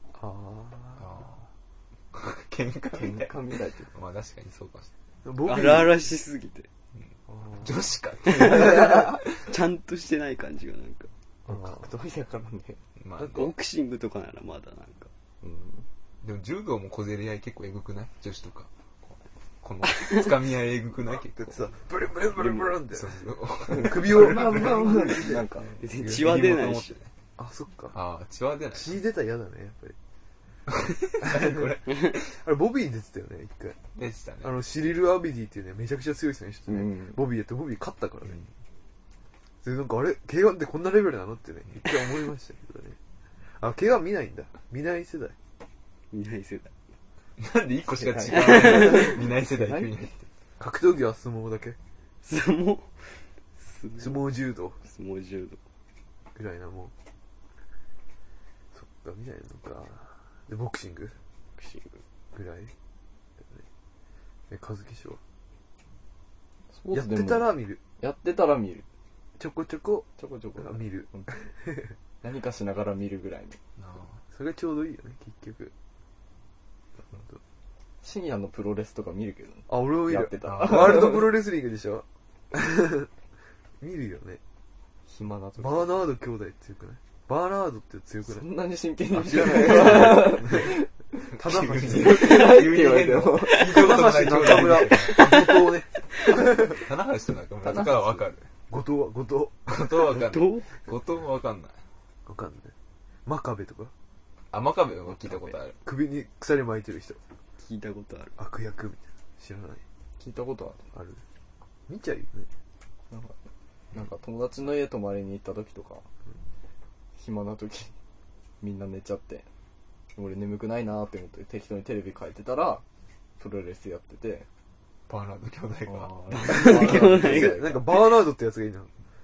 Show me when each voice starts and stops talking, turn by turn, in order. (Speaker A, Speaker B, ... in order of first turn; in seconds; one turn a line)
Speaker A: 0.1-1.1
Speaker B: 1.0-1.5
Speaker B: 2.1-3.3
Speaker C: 2.9-3.9
Speaker B: 3.9-4.9
Speaker A: 5.2-6.0
Speaker D: 5.5-6.7
Speaker A: 7.3-7.8
Speaker B: 7.6-9.4
Speaker D: 8.2-11.1
Speaker C: 11.5-12.8
Speaker A: 11.5-11.9
Speaker B: 13.0-13.5
Speaker D: 13.3-15.1
Speaker C: 15.4-15.9
Speaker B: 16.2-21.8
Speaker A: 21.4-23.2
Speaker B: 22.9-25.3
Speaker C: 23.7-25.9
Speaker A: 23.8-25.4
Speaker D: 25.8-26.9
Speaker B: 26.0-27.1
Speaker A: 27.4-28.0
Speaker B: 27.9-29.0
Speaker A: 28.7-30.0
Speaker B: 30.7-32.4
Speaker A: 31.2-31.8
Speaker A: 32.4-33.8
Speaker B: 34.0-34.6
Speaker A: 34.4-38.4
Speaker C: 36.8-37.2
Speaker A: 39.6-45.4
Speaker D: 46.1-46.7
Speaker B: 47.4-50.2
Speaker C: 47.9-50.2
Speaker D: 48.3-49.2
Speaker A: 50.6-51.8
Speaker D: 52.2-55.6
Speaker A: 54.0-54.8
Speaker A: 56.4-56.9
Speaker A: 58.7-61.2
Speaker C: 61.6-62.0
Speaker A: 62.3-62.7
Speaker A: 64.5-65.2
Speaker C: 66.7-68.9
Speaker A: 66.9-67.8
Speaker A: 69.4-72.0
Speaker C: 70.2-71.5
Speaker C: 72.2-73.6
Speaker B: 73.8-74.2
Speaker A: 74.3-75.7
Speaker A: 77.1-77.4
Speaker C: 78.0-81.3
Speaker A: 79.7-83.1
Speaker B: 80.5-80.9
Speaker A: 83.8-84.4
Speaker C: 85.1-86.0
Speaker A: 85.6-88.5
Speaker C: 88.2-91.2
Speaker A: 89.1-92.6
Speaker B: 89.7-90.6
Speaker B: 91.3-95.5
Speaker C: 91.8-93.8
Speaker A: 93.5-96.8
Speaker B: 96.6-98.5
Speaker C: 97.6-98.2
Speaker A: 98.7-100.2
Speaker B: 99.7-101.8
Speaker D: 100.2-100.7
Speaker A: 102.3-102.7
Speaker A: 103.2-103.9
Speaker B: 104.5-105.8
Speaker A: 105.8-107.2
Speaker D: 107.6-108.4
Speaker A: 108.4-109.8
Speaker C: 110.2-110.8
Speaker A: 110.9-111.2
Speaker A: 111.9-112.5
Speaker C: 113.1-116.1
Speaker C: 117.2-117.9
Speaker C: 118.6-119.5
Speaker C: 120.2-122.8
Speaker C: 123.4-124.5
Speaker B: 125.1-126.5
Speaker C: 125.9-127.8
Speaker D: 126.4-127.9
Speaker A: 126.5-128.9